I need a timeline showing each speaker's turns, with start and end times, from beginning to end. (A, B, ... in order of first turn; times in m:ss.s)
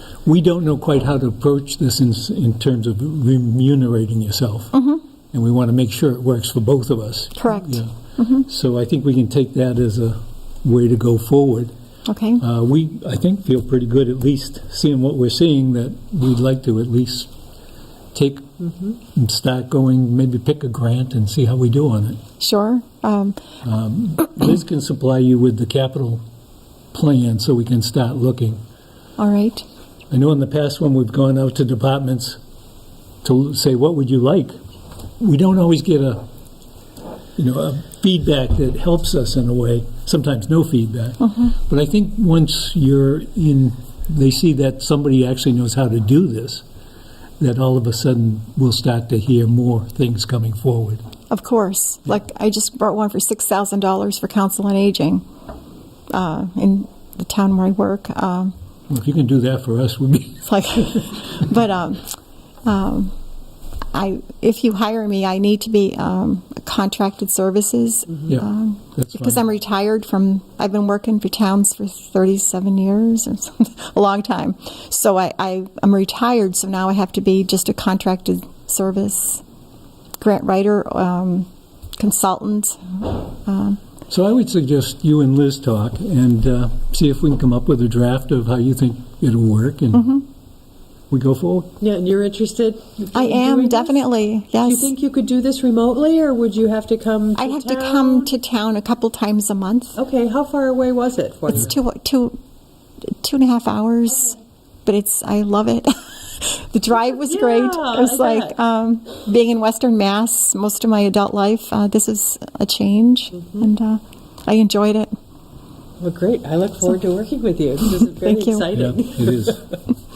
0:00.2-0:04.8 A
0:04.7-0:05.0 B
0:05.3-0:11.7 A
0:07.4-0:08.4 B
0:12.1-0:12.4 B
0:12.4-0:17.3 A
0:18.1-0:22.2 A
0:22.4-0:23.4 B
0:23.6-0:26.2 A
0:26.9-0:28.6 A
0:29.2-0:29.6 B
0:30.1-0:32.4 A
0:33.2-0:34.6 A
0:35.2-0:36.2 A
0:37.4-0:46.6 A
0:47.4-0:51.0 A
0:51.3-0:55.2 B
0:56.1-0:58.5 B
0:58.9-1:00.5 A
1:00.5-1:02.1 B
1:02.7-1:03.1 B
1:03.9-1:19.4 B
1:08.3-1:09.4 A
1:20.2-1:23.8 B
1:24.1-1:30.1 A
1:29.9-1:30.2 B
1:31.1-1:31.7 A
1:31.8-1:34.0 C
1:33.1-1:34.9 B
1:34.6-1:38.3 C
1:37.4-1:40.0 B
1:40.0-1:41.7 C
1:41.5-1:42.4 B
1:43.0-1:55.1 B
1:47.1-1:48.5 C
1:56.0-1:59.6 C
1:58.2-1:58.7 B
1:58.7-1:59.6 A